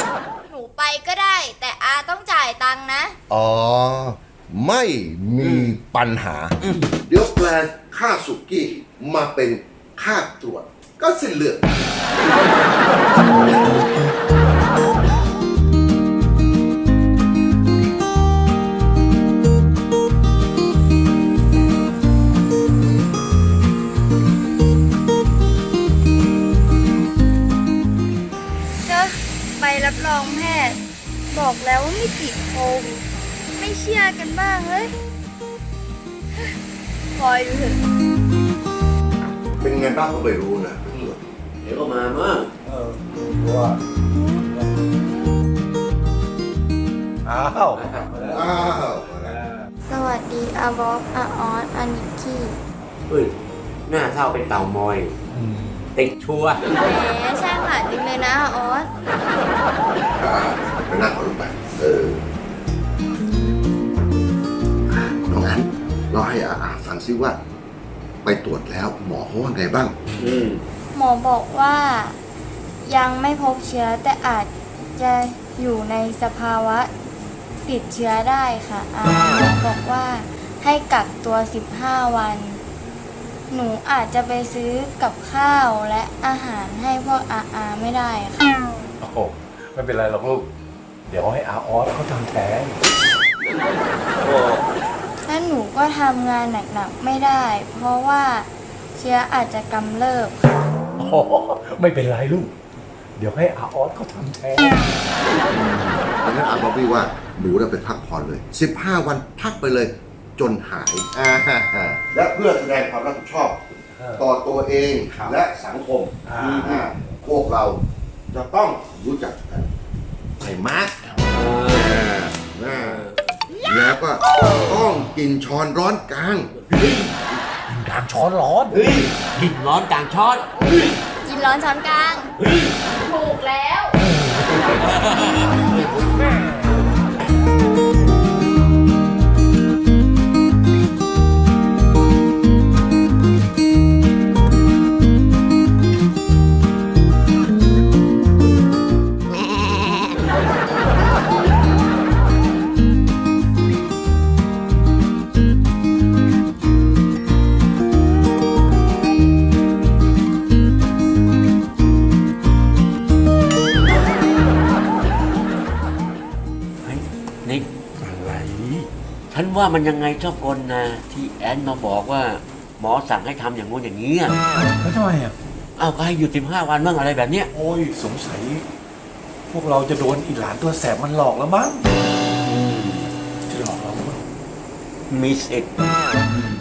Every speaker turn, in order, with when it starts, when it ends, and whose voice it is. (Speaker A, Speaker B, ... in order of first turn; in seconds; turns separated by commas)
Speaker A: 0.5-3.2, Speaker B: 3.3-11.7, Speaker C: 5.4-5.8, Speaker D: 28.9-33.0, Speaker D: 33.6-34.9, Speaker D: 37.1-37.8, Speaker B: 39.6-41.2, Speaker C: 41.6-42.5, Speaker E: 42.7-43.8, Speaker E: 47.2-47.8, Speaker C: 47.7-49.4, Speaker B: 48.3-49.4, Speaker D: 49.9-52.6, Speaker C: 53.1-53.3, Speaker C: 53.9-55.2, Speaker E: 55.3-55.9, Speaker C: 56.0-56.6, Speaker D: 56.8-58.9, Speaker B: 60.2-62.2, Speaker B: 64.9-67.4, Speaker B: 68.2-70.0, Speaker C: 70.2-70.6, Speaker D: 70.9-72.2, Speaker D: 72.8-76.9, Speaker D: 77.7-82.6, Speaker D: 83.5-88.6, Speaker E: 89.0-90.5, Speaker E: 91.1-92.8, Speaker C: 94.2-94.6, Speaker D: 95.2-100.4, Speaker E: 101.0-102.5, Speaker E: 103.2-104.8, Speaker B: 105.5-117.8, Speaker E: 114.0-114.2, Speaker E: 116.3-116.6, Speaker C: 116.4-116.9, Speaker B: 118.3-119.7, Speaker B: 120.4-123.1, Speaker C: 121.3-122.0, Speaker C: 122.7-123.2, Speaker B: 123.6-126.5, Speaker C: 126.8-127.0, Speaker E: 127.7-128.8, Speaker C: 128.7-130.9, Speaker D: 131.2-132.3, Speaker C: 132.4-132.8, Speaker D: 133.1-133.9, Speaker C: 134.5-135.9, Speaker C: 166.8-167.7, Speaker E: 168.0-168.9, Speaker C: 169.3-174.4, Speaker E: 174.8-175.3, Speaker C: 175.8-177.5, Speaker E: 177.5-178.7, Speaker E: 179.5-181.8, Speaker C: 182.4-183.1, Speaker E: 183.5-184.2, Speaker C: 185.1-185.7